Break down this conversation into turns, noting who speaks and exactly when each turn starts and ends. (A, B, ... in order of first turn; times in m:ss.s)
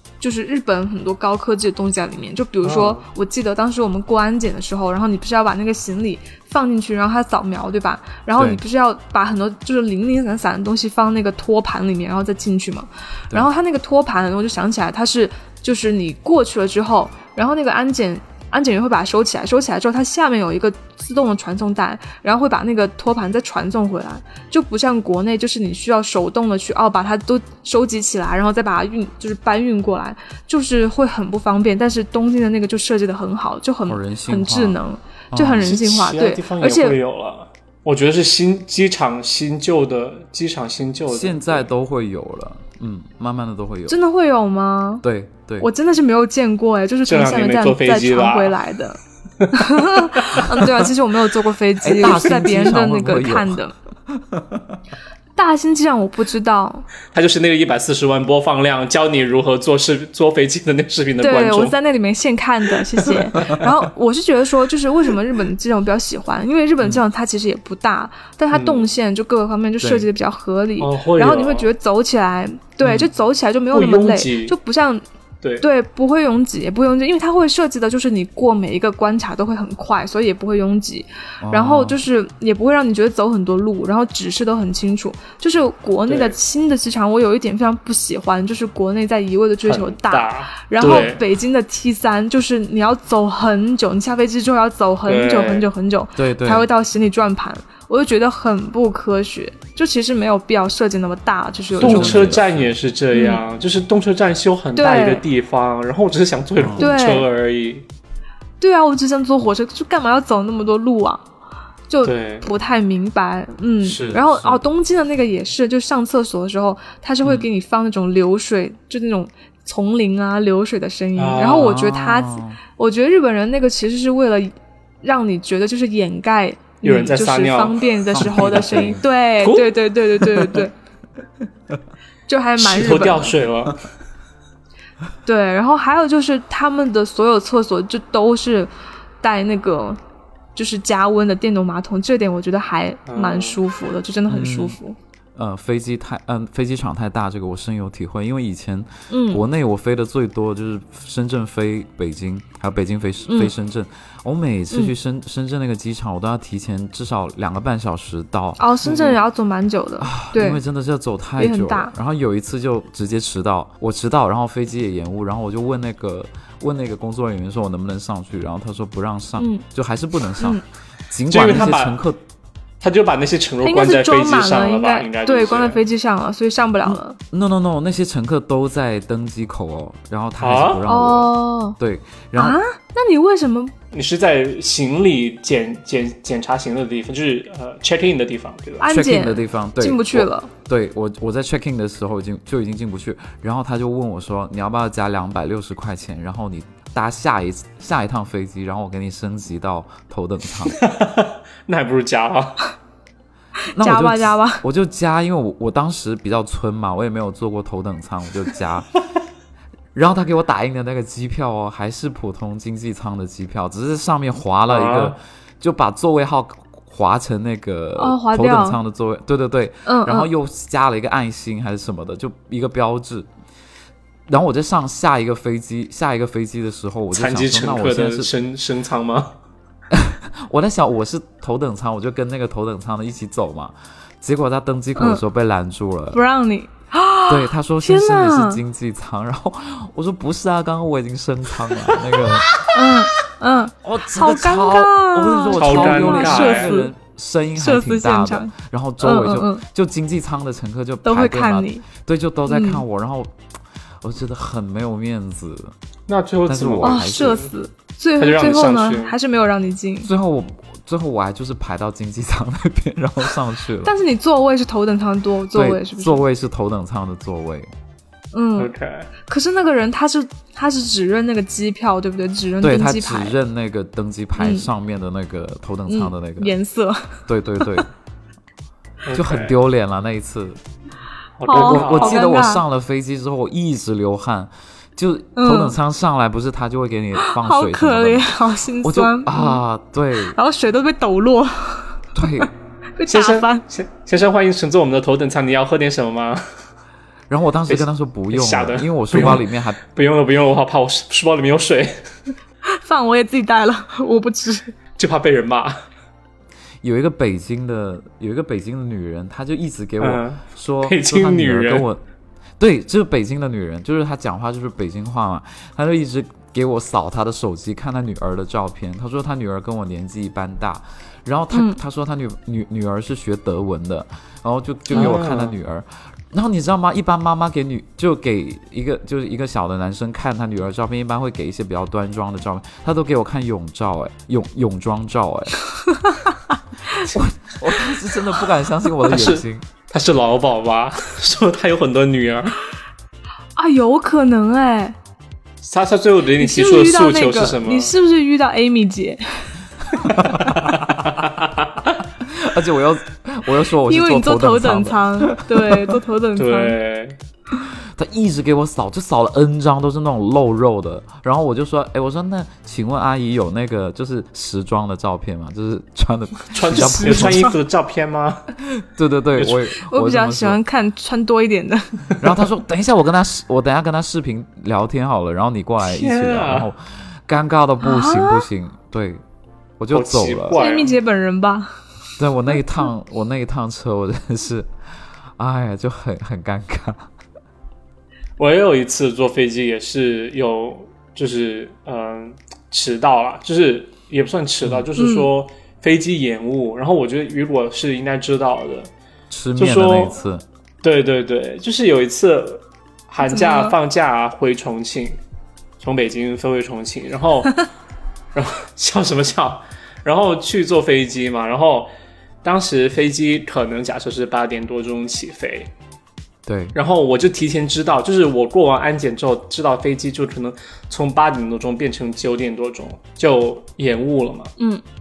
0:00.2-0:37.0 A
0:02.6-0:03.0 B
0:33.9-0:34.8 C
0:35.3-0:35.7 C
0:35.6-0:41.7 B
0:41.1-0:44.0 C
0:43.9-0:45.0 A
0:45.0-0:45.7 C
0:45.6-0:49.0 A
0:47.1-0:48.6 B
0:49.5-0:53.7 A
0:51.8-0:54.6 C
0:55.4-0:56.9 A
0:57.1-1:01.8 B
1:01.2-1:15.0 A
1:03.0-1:03.7 B
1:08.5-1:08.9 B
1:09.8-1:10.1 C
1:10.8-1:11.7 B
1:13.7-1:14.6 B
1:15.6-1:42.3 A
1:21.4-1:22.0 C
1:26.1-1:26.4 B
1:29.6-1:31.2 B
1:30.8-1:31.2 C
1:35.1-1:35.7 B
1:36.2-1:36.7 C
1:41.7-1:42.7 C
1:41.8-1:47.8 B
1:43.1-1:43.4 A
1:44.8-1:45.2 A
1:46.6-1:46.9 C
1:46.8-1:47.3 A
1:48.6-1:51.2 A
1:51.9-2:10.7 A
1:52.0-1:52.4 B
1:53.8-1:54.6 C
2:01.2-2:01.8 B
2:01.5-2:02.6 C
2:06.8-2:09.7 B
2:08.1-2:09.0 C
2:12.3-2:13.4 A
2:12.6-2:13.8 B
2:15.2-2:20.0 A
2:20.5-2:25.0 A
2:23.1-2:23.6 B
2:24.3-2:24.8 C
2:25.4-2:38.6 C
2:29.1-2:29.4 A
2:33.2-2:33.5 A
2:38.6-2:40.6 A
2:38.8-2:39.2 B
2:40.0-2:52.2 C
2:41.4-2:41.9 A
2:49.4-2:49.6 A
2:50.4-2:50.6 A
2:51.3-2:52.0 B
2:52.8-2:55.8 B
2:53.6-2:57.2 A
2:56.8-3:02.6 C
3:00.4-3:00.8 B
3:00.8-3:01.8 A
3:02.4-3:03.7 A
3:03.9-3:08.9 B
3:08.8-3:10.5 A
3:08.8-3:20.8 C
3:20.8-3:22.6 B
3:23.8-3:28.9 C
3:23.8-3:24.6 A
3:29.9-3:43.3 C
3:34.7-3:35.2 B
3:38.0-3:38.8 A
3:39.8-3:40.3 A
3:44.3-3:48.3 C
3:47.1-3:49.4 B
3:49.9-3:56.2 C
3:55.0-3:55.2 A
3:56.1-3:58.6 A
3:57.3-4:02.5 C
4:02.7-4:06.9 A
4:03.8-4:13.3 C
4:05.5-4:06.7 B
4:07.6-4:09.6 A
4:11.0-4:11.8 A
4:12.5-4:12.8 A
4:14.0-4:15.7 C
4:16.1-4:17.5 B
4:16.5-4:17.4 C
4:16.8-4:20.1 A
4:18.2-4:19.1 B
4:20.0-4:23.9 C
4:23.8-4:26.2 A
4:25.5-4:27.7 C
4:28.3-4:28.7 A
4:28.6-4:29.1 B
4:29.2-4:33.4 A
4:32.6-4:36.5 C
4:34.4-4:34.7 A
4:35.9-4:37.8 A
4:37.3-4:37.9 C
4:39.0-4:39.6 B
4:39.1-4:40.6 C
4:41.4-4:42.2 B
4:41.4-4:42.6 A
4:41.5-4:48.3 C
4:45.4-4:45.7 A
4:47.2-4:49.6 A
4:48.8-4:50.4 C
4:50.3-4:52.0 A
4:52.1-4:52.5 C
4:53.0-4:53.6 A
4:53.1-4:56.4 B
4:57.3-4:59.8 C
4:57.7-5:02.0 B
5:02.7-5:04.7 A
5:05.0-5:05.7 B
5:06.8-5:12.0 C
5:10.0-5:11.8 B
5:12.6-5:35.6 C
5:21.5-5:21.8 A
5:24.9-5:25.6 B
5:35.7-5:36.4 A
5:37.1-5:39.7 C
5:39.0-5:42.6 B
5:43.6-5:45.0 A
5:45.6-5:47.9 B
5:46.4-5:49.5 A
5:50.1-5:50.5 A
5:50.2-5:50.6 C
5:50.4-5:51.6 B
5:52.2-5:55.9 C
5:53.9-5:56.8 A
5:56.4-5:57.2 B
5:57.7-6:07.5 C
6:06.5-6:08.5 B
6:07.0-6:07.5 A
6:08.7-6:10.6 C
6:09.4-6:09.6 B
6:09.8-6:12.0 A
6:12.2-6:19.2 C
6:15.8-6:16.7 B
6:17.8-6:18.4 A
6:19.8-6:20.6 C
6:19.9-6:21.0 B
6:20.5-6:21.7 A
6:22.2-6:24.7 C
6:25.4-6:27.1 C
6:28.4-6:38.9 B
6:35.0-6:35.3 A
6:39.3-6:40.4 C
6:39.6-6:40.2 B
6:40.8-6:45.2 B
6:43.2-6:43.7 A
6:45.8-6:47.6 B
6:48.3-6:51.9 B
6:52.4-6:55.7 B
6:56.4-6:56.7 C
6:56.7-7:04.5 B